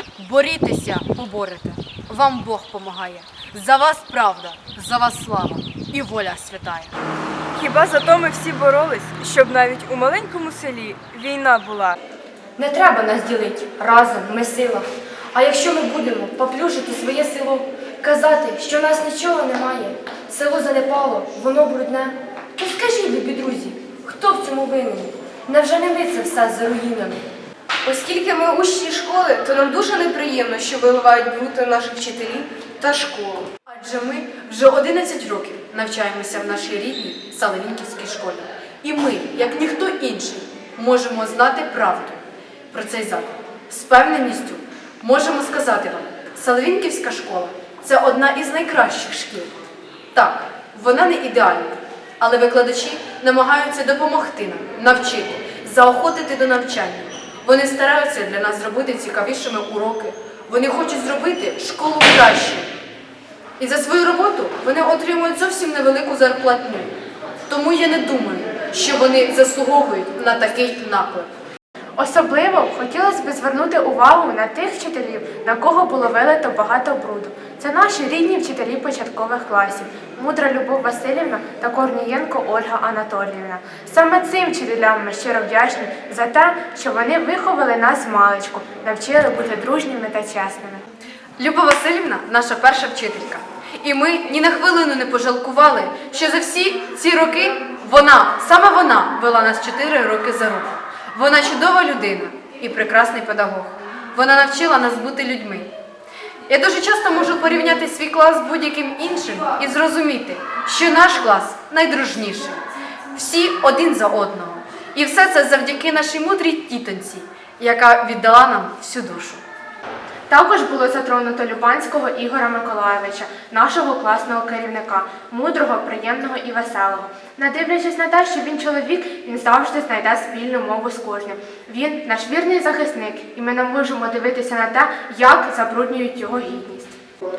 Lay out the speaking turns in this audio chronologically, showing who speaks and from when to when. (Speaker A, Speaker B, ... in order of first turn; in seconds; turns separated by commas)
Speaker A: 0.2-6.9, Speaker B: 7.5-12.0, Speaker C: 12.6-27.2, Speaker D: 27.9-33.5, Speaker A: 33.7-42.2, Speaker A: 42.7-49.6, Speaker A: 50.1-62.7, Speaker A: 63.6-66.9, Speaker A: 67.5-71.3, Speaker E: 72.0-90.8, Speaker A: 91.4-105.7, Speaker A: 106.5-112.6, Speaker A: 113.1-119.4, Speaker E: 120.3-137.0